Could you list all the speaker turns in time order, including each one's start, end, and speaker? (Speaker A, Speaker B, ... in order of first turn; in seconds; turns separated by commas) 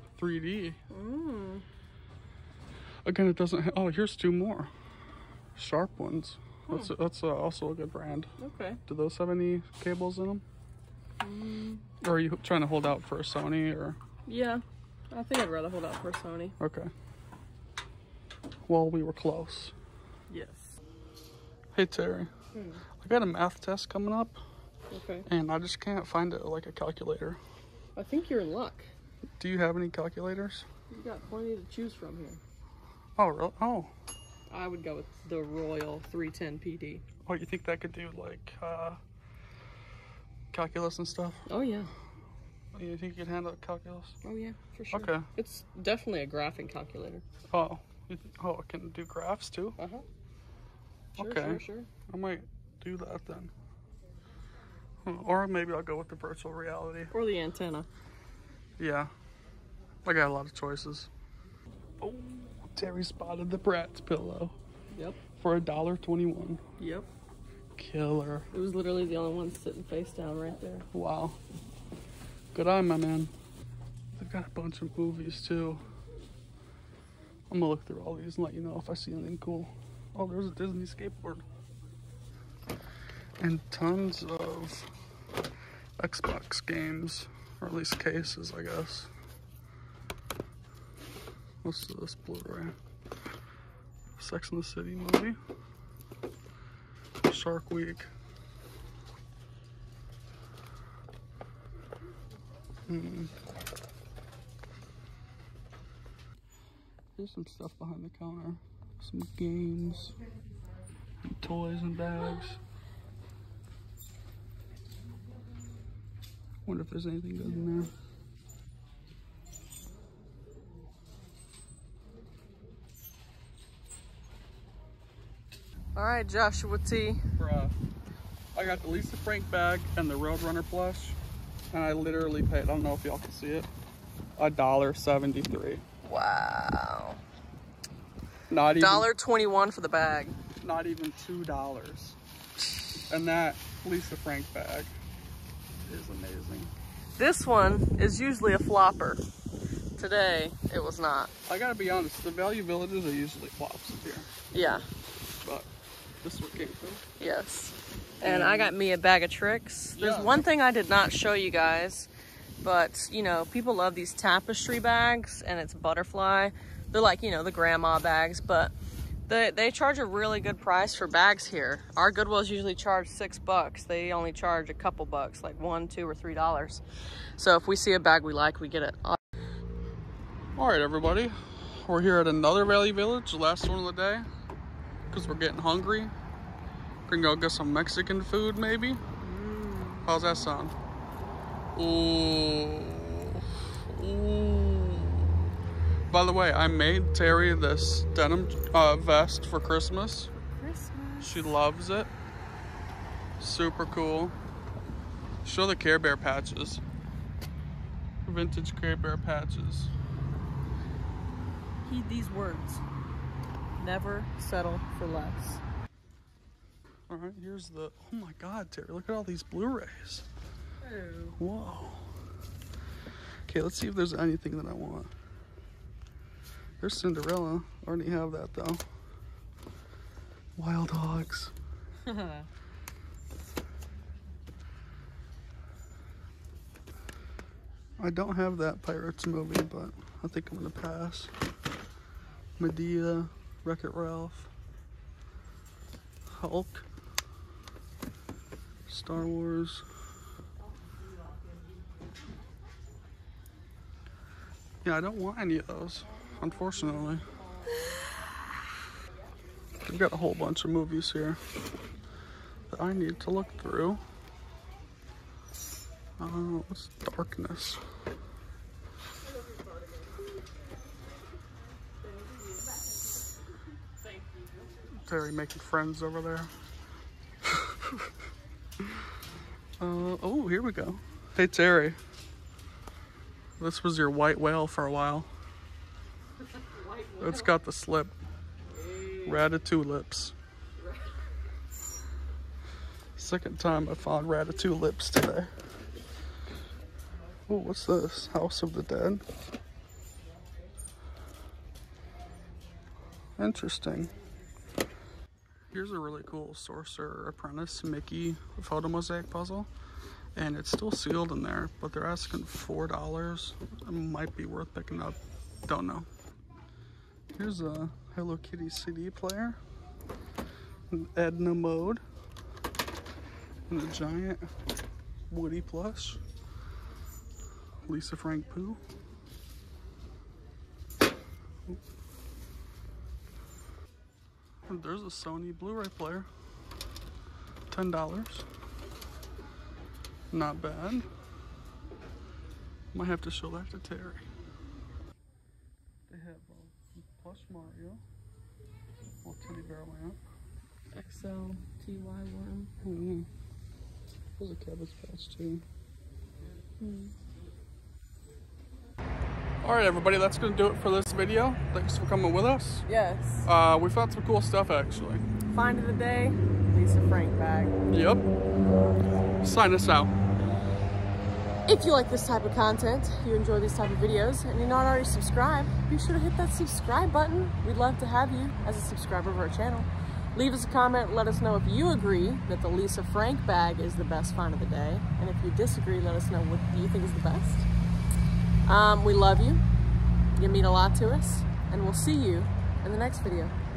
Speaker A: 0.2-0.8, Speaker B: 0.9-1.6, Speaker A: 3.0-4.7, Speaker A: 5.5-8.3, Speaker B: 8.4-8.8, Speaker A: 8.9-10.4, Speaker B: 11.2-11.8, Speaker A: 12.0-14.0, Speaker B: 14.3-16.6, Speaker A: 16.6-16.9, Speaker A: 18.7-19.7, Speaker B: 20.3-20.8, Speaker A: 21.7-22.3, Speaker B: 22.5-22.8, Speaker A: 23.0-24.4, Speaker B: 24.9-25.3, Speaker A: 25.3-27.4, Speaker B: 28.0-28.9, Speaker A: 29.4-30.7, Speaker B: 30.9-32.4, Speaker A: 33.2-33.9, Speaker B: 34.5-37.0, Speaker A: 37.3-39.0, Speaker A: 40.5-41.4, Speaker B: 41.5-41.9, Speaker A: 42.7-44.2, Speaker B: 44.2-47.2, Speaker A: 44.9-45.3, Speaker A: 47.5-49.8, Speaker B: 49.8-50.0, Speaker A: 51.1-53.5, Speaker B: 51.2-51.9, Speaker A: 55.0-57.1, Speaker B: 57.1-57.9, Speaker A: 58.8-59.1, Speaker A: 60.0-61.1, Speaker A: 62.0-64.6, Speaker B: 64.9-65.2, Speaker A: 65.4-66.6, Speaker B: 66.8-67.1, Speaker A: 67.8-68.5, Speaker B: 68.5-70.9, Speaker A: 70.9-71.4, Speaker A: 72.5-73.3, Speaker A: 74.1-75.8, Speaker A: 77.5-81.5, Speaker A: 83.4-84.9, Speaker A: 86.0-89.1, Speaker A: 91.6-92.8, Speaker A: 94.2-95.4, Speaker A: 97.3-98.1, Speaker A: 102.9-103.3, Speaker A: 107.2-110.2, Speaker A: 111.2-112.6, Speaker A: 116.7-117.9, Speaker B: 126.0-127.2, Speaker A: 127.4-127.8, Speaker A: 128.5-131.2, Speaker A: 131.7-133.7, Speaker A: 134.4-135.8, Speaker B: 136.0-137.2, Speaker A: 138.5-139.1, Speaker B: 138.8-140.4, Speaker A: 140.6-144.9, Speaker A: 145.8-146.7, Speaker B: 147.2-149.2, Speaker B: 150.0-151.3, Speaker A: 151.5-154.3, Speaker B: 154.5-154.9, Speaker A: 155.4-155.7, Speaker A: 156.2-157.0, Speaker B: 157.2-162.1, Speaker A: 158.2-158.7, Speaker A: 160.0-160.4, Speaker B: 162.6-168.7, Speaker B: 169.3-176.8, Speaker B: 177.4-179.2, Speaker A: 180.6-184.3, Speaker A: 185.1-186.1, Speaker A: 187.1-189.0, Speaker B: 189.2-190.1, Speaker A: 190.1-190.8, Speaker A: 191.8-195.4, Speaker A: 196.1-200.3, Speaker B: 200.5-201.5, Speaker A: 201.2-202.1, Speaker A: 203.4-204.4, Speaker A: 205.4-206.8, Speaker A: 208.2-209.9, Speaker B: 211.8-212.8, Speaker B: 213.8-215.6, Speaker A: 217.1-220.3, Speaker B: 220.8-221.4, Speaker A: 221.4-222.1, Speaker A: 223.5-225.1, Speaker A: 226.8-228.8, Speaker A: 230.6-231.5, Speaker B: 232.1-232.5, Speaker A: 238.0-241.3, Speaker A: 242.6-244.5, Speaker A: 246.3-246.9, Speaker A: 248.9-249.8, Speaker A: 254.8-257.2, Speaker A: 259.9-261.4, Speaker A: 262.7-264.0, Speaker A: 266.2-267.8, Speaker B: 269.5-270.1, Speaker B: 272.0-273.1, Speaker B: 274.0-274.8, Speaker A: 275.1-276.5, Speaker A: 279.8-282.0, Speaker A: 283.6-285.3, Speaker B: 286.5-287.5, Speaker A: 287.2-288.1, Speaker B: 288.7-289.4, Speaker A: 289.2-290.4, Speaker B: 290.8-291.2, Speaker A: 293.2-295.5, Speaker A: 297.5-299.2, Speaker A: 303.4-304.1, Speaker A: 305.7-309.7, Speaker A: 310.4-316.1, Speaker A: 317.3-319.6, Speaker A: 320.9-322.0, Speaker A: 323.7-324.5, Speaker A: 325.3-326.2, Speaker A: 327.9-328.8, Speaker A: 334.7-336.3, Speaker A: 337.7-338.5, Speaker A: 340.3-341.1, Speaker A: 342.9-344.3, Speaker A: 346.1-348.0, Speaker A: 349.2-350.2, Speaker B: 350.9-352.7, Speaker A: 352.8-353.3, Speaker A: 354.4-355.6, Speaker B: 356.8-357.1, Speaker A: 359.6-362.9, Speaker B: 362.9-363.5, Speaker A: 363.4-365.2, Speaker B: 365.5-367.8, Speaker A: 367.9-368.2, Speaker A: 369.4-370.1, Speaker B: 371.7-387.7, Speaker B: 388.7-389.6, Speaker B: 390.4-393.6